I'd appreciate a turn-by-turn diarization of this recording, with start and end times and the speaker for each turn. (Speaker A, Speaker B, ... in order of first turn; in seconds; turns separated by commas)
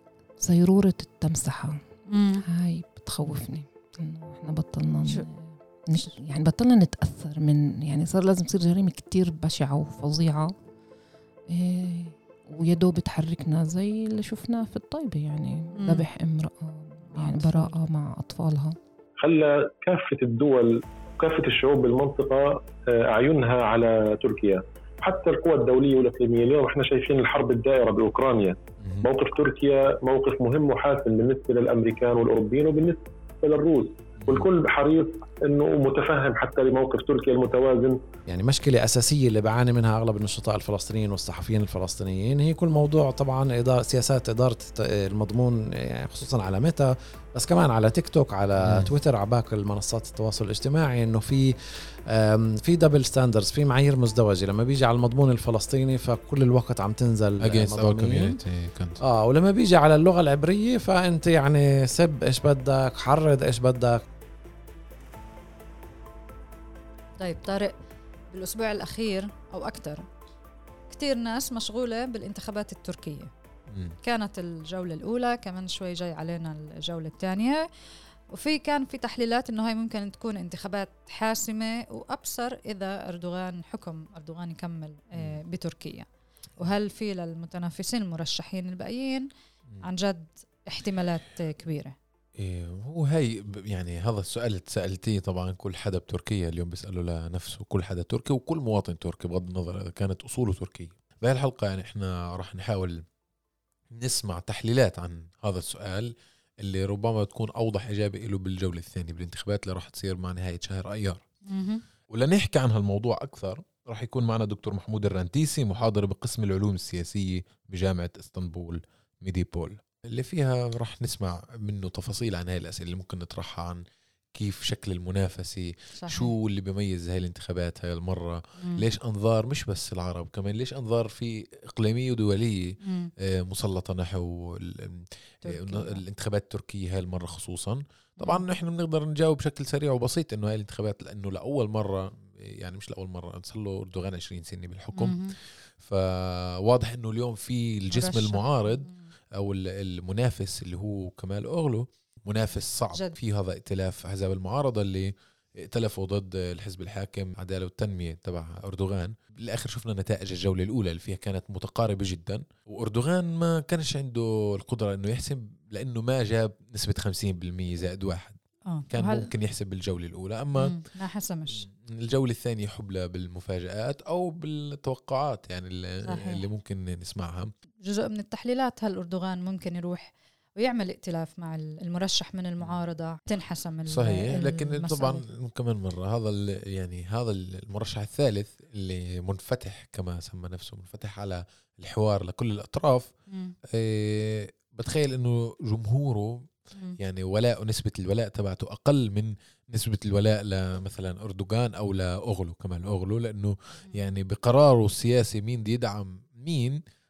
Speaker A: 0.4-1.8, Speaker B: 2.1-2.4, Speaker A: 2.4-10.5, Speaker A: 11.5-18.7, Speaker B: 15.8-16.1, Speaker B: 17.1-17.8, Speaker C: 19.2-38.0, Speaker D: 28.8-29.1, Speaker D: 34.2-34.5, Speaker E: 38.3-51.5, Speaker D: 48.6-48.9, Speaker E: 52.1-58.4, Speaker D: 57.4-59.0, Speaker E: 59.0-64.0, Speaker B: 67.2-67.7, Speaker B: 68.3-70.1, Speaker B: 70.9-73.3, Speaker D: 73.7-74.0, Speaker B: 74.0-77.6, Speaker B: 78.3-89.2, Speaker B: 89.8-91.9, Speaker D: 92.4-103.0, Speaker D: 104.0-111.2, Speaker B: 111.4-111.8, Speaker D: 112.1-168.4, Speaker B: 126.0-126.3, Speaker B: 128.6-128.8, Speaker B: 132.8-133.1, Speaker B: 135.4-136.0, Speaker B: 144.9-145.4, Speaker B: 147.9-149.0, Speaker B: 168.7-169.3, Speaker D: 168.9-170.8, Speaker B: 170.6-171.6, Speaker D: 171.6-177.5, Speaker B: 176.0-176.4, Speaker B: 177.8-185.2, Speaker D: 183.9-193.1, Speaker B: 193.3-193.5, Speaker D: 193.7-206.8